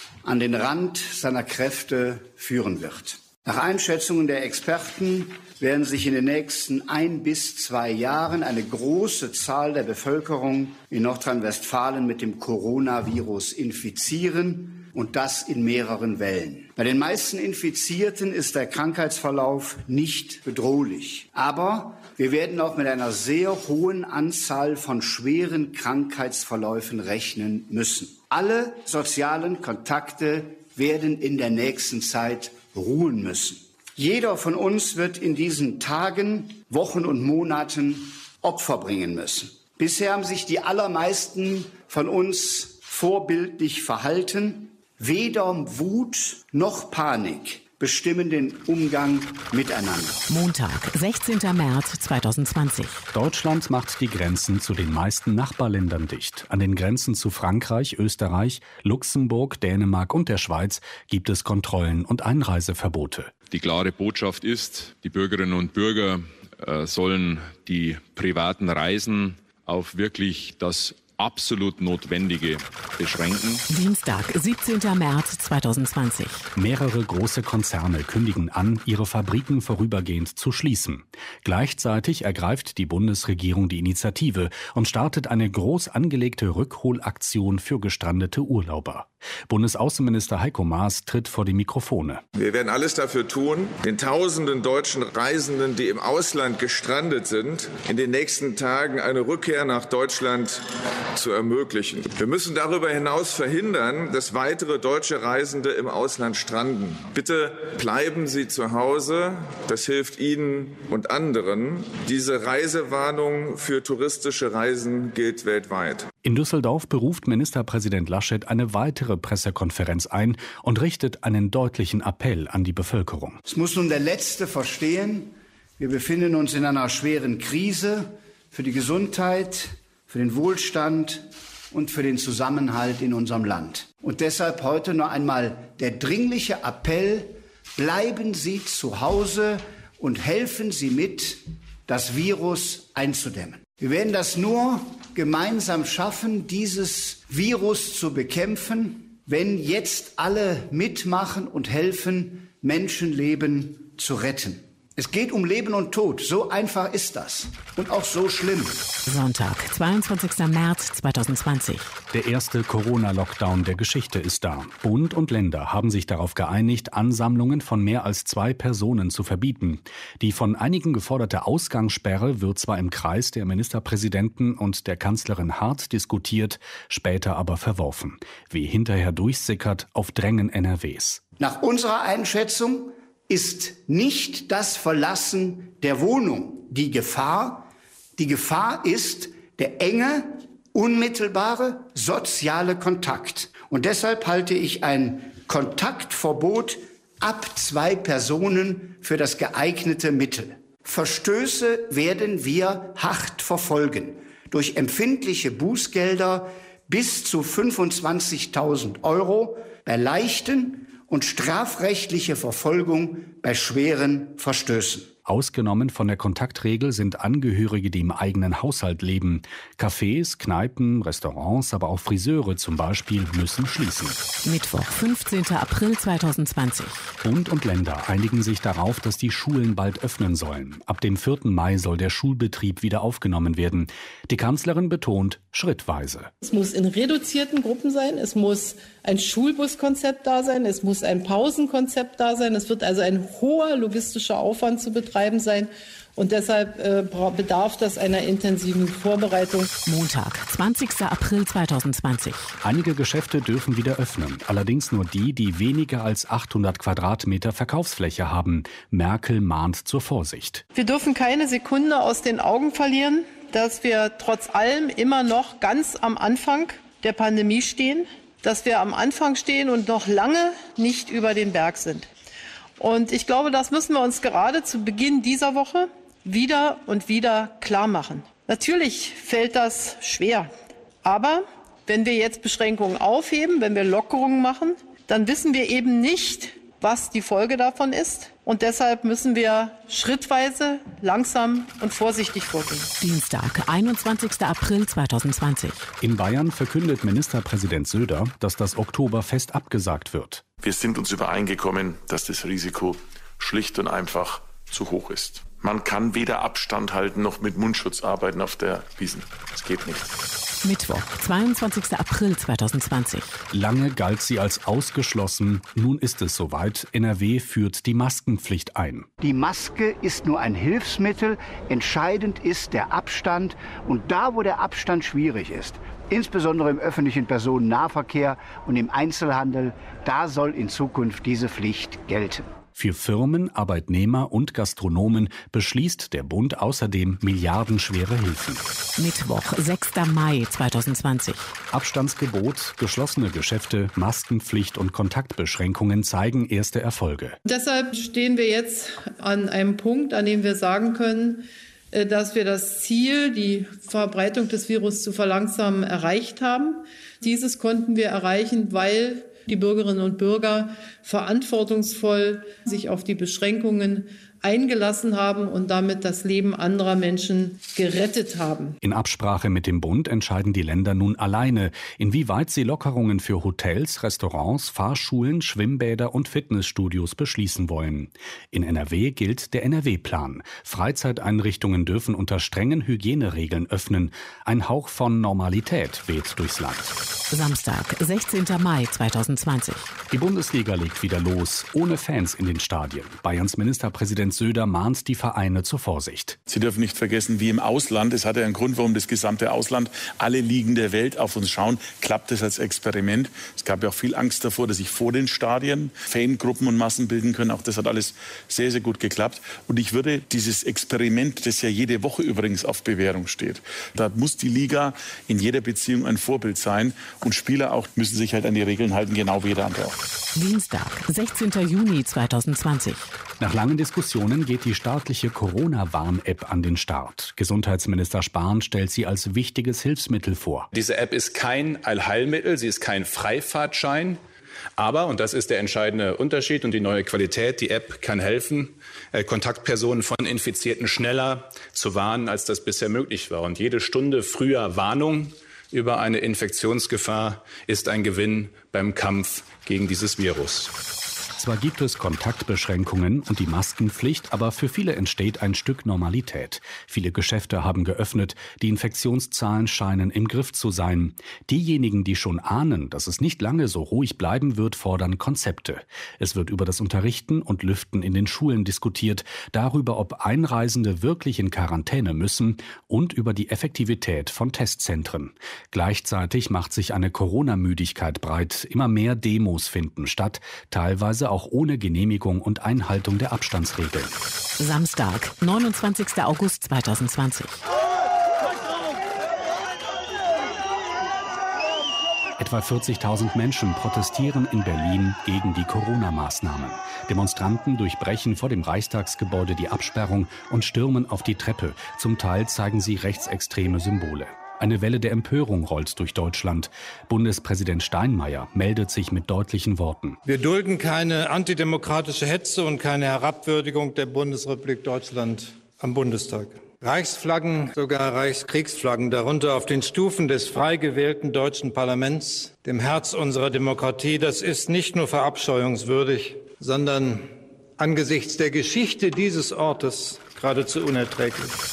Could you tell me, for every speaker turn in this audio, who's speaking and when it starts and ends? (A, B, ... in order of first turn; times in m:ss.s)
0:00.2-0:50.2 A
0:50.3-0:53.0 B
0:53.1-1:03.3 C
1:03.5-1:13.6 D
1:13.7-1:16.5 B
1:16.5-1:32.2 C
1:32.3-1:40.6 E
1:41.1-1:56.1 E
1:56.2-2:03.4 C
2:03.4-2:38.8 A
2:39.0-2:41.9 B
2:42.1-3:01.2 C
3:01.4-3:35.1 A
3:35.2-3:44.2 C
3:44.4-3:47.1 B
3:47.2-3:56.3 C
3:56.4-4:09.7 F
4:09.8-4:12.6 B
4:12.6-4:20.6 C
4:20.7-4:32.1 F
4:32.8-4:40.5 F
4:41.0-4:52.9 F
4:53.0-4:55.9 B
4:56.0-5:00.4 C
5:00.6-5:10.1 G
5:10.6-5:13.4 B
5:13.5-5:19.1 C
5:19.2-5:32.5 A
5:32.7-5:38.6 C
5:39.0-5:41.5 B
5:41.7-5:47.4 C
5:47.4-6:08.8 F
6:08.8-6:26.9 C
6:27.3-6:29.9 B
6:30.1-6:36.4 C
6:36.5-7:00.0 H
7:00.4-7:03.1 B
7:03.4-7:10.7 C
7:10.7-7:14.2 I
7:14.8-7:30.7 I
7:31.4-8:04.1 C
8:04.6-8:07.6 B
8:12.4-8:30.2 C
8:30.2-8:47.3 J
8:47.8-8:51.6 J